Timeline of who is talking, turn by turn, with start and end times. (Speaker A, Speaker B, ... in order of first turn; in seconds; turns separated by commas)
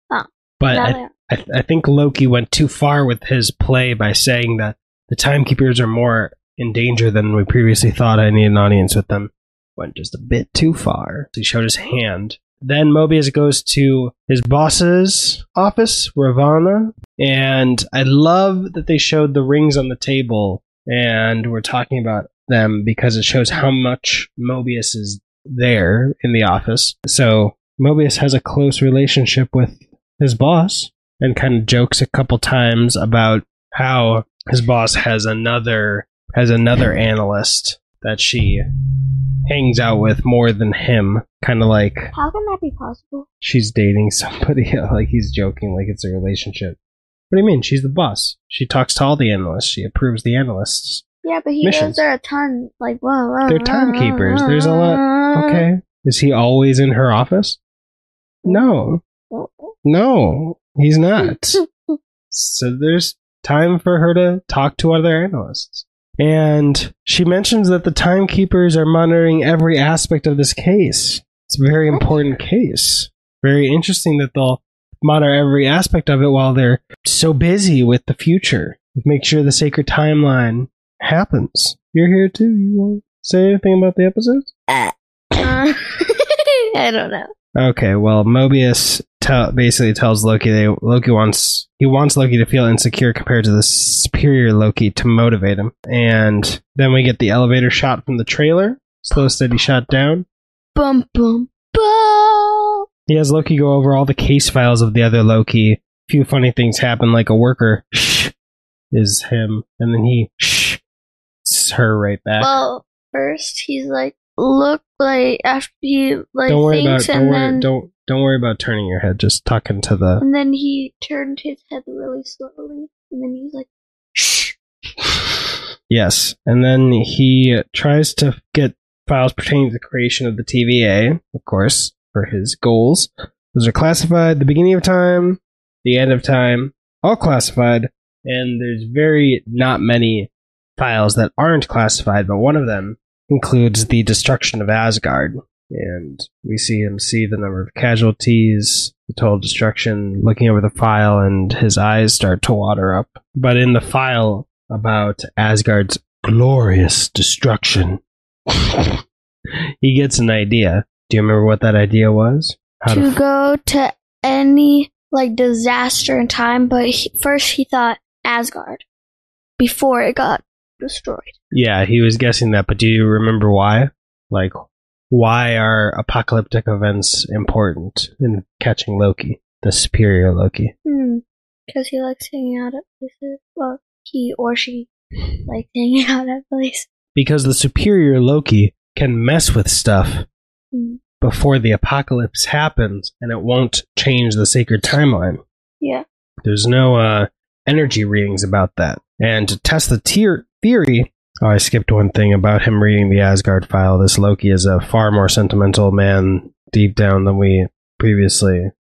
Speaker A: 0.1-1.1, Speaker B: 0.6-38.6, Speaker B: 39.5-42.1, Speaker A: 42.1-43.3, Speaker B: 43.4-46.8, Speaker B: 47.3-51.0, Speaker A: 51.2-55.6, Speaker B: 51.6-52.0, Speaker B: 53.5-57.6, Speaker B: 58.5-59.0, Speaker A: 59.3-59.7, Speaker B: 59.9-61.6, Speaker A: 61.2-62.0, Speaker B: 62.3-84.5, Speaker A: 84.7-87.3, Speaker B: 87.6-100.3, Speaker A: 100.8-102.8, Speaker B: 103.1-108.3, Speaker B: 108.9-110.8, Speaker B: 111.4-112.6, Speaker A: 112.4-117.7, Speaker B: 116.5-120.2, Speaker A: 120.2-124.6, Speaker B: 125.9-158.0, Speaker B: 159.8-163.2, Speaker A: 162.9-168.8, Speaker A: 169.6-171.3, Speaker B: 171.5-174.5, Speaker B: 175.1-180.7, Speaker A: 180.8-184.9, Speaker A: 185.5-186.9, Speaker B: 187.2-190.3, Speaker A: 190.7-191.0, Speaker B: 191.2-195.4, Speaker B: 196.4-208.7